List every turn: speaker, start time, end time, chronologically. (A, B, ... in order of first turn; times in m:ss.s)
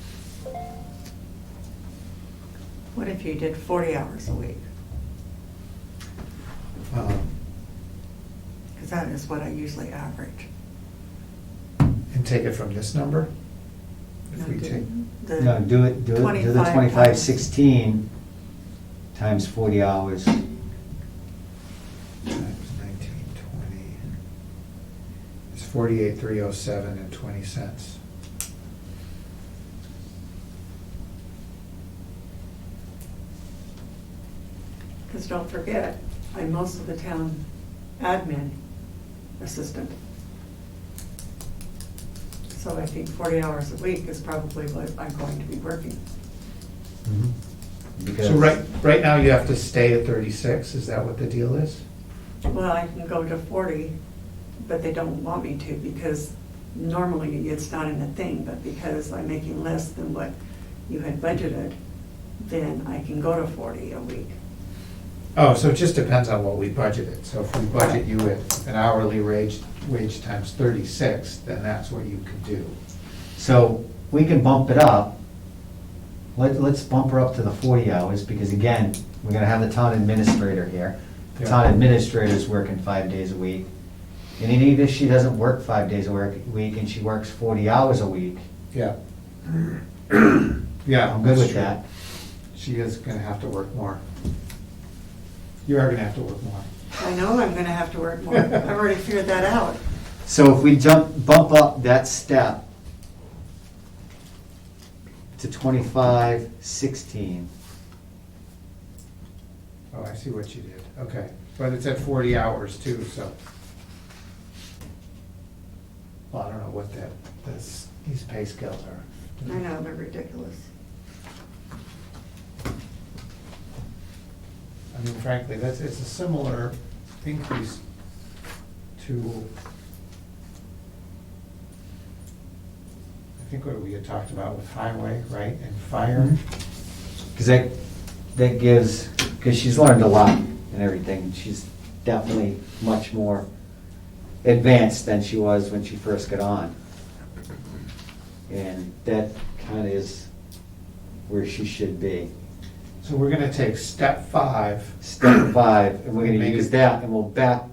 0:02.9-0:04.6 A
0:06.9-0:07.3 B
0:08.8-0:10.5 A
0:12.1-0:13.3 B
0:14.3-0:14.8 B
0:14.3-0:17.3 A
0:15.4-0:18.0 C
0:19.1-0:20.4 C
0:22.3-0:24.0 B
0:25.5-0:28.0 B
0:35.1-0:37.4 A
0:38.0-0:38.6 A
0:39.4-0:39.9 A
0:42.5-0:46.0 A
0:47.0-0:47.3 C
0:48.0-0:48.5 C
0:48.2-0:51.8 B
0:52.4-0:53.9 A
0:54.6-1:00.3 A
1:00.9-1:01.8 A
1:02.4-1:04.4 A
1:05.4-1:12.8 B
1:13.4-1:15.1 C
1:16.3-1:23.6 C
1:21.4-1:21.6 B
1:24.4-1:28.4 C
1:30.8-1:31.8 B
1:31.1-1:31.8 C
1:32.5-1:34.0 B
1:35.6-1:36.7 B
1:37.0-1:39.8 A
1:40.2-1:42.6 C
1:45.4-1:47.5 C
1:49.9-1:53.3 B
1:56.3-1:59.6 B
1:59.4-2:00.7 A
2:04.9-2:07.8 B
2:09.0-2:09.5 B
2:13.4-2:16.4 B
2:17.3-2:17.7 C
2:18.3-2:23.4 C
2:24.4-2:26.7 C
2:28.5-2:30.3 C
2:31.3-2:32.3 C
2:33.0-2:35.0 B
2:35.0-2:37.6 C
2:36.2-2:36.7 B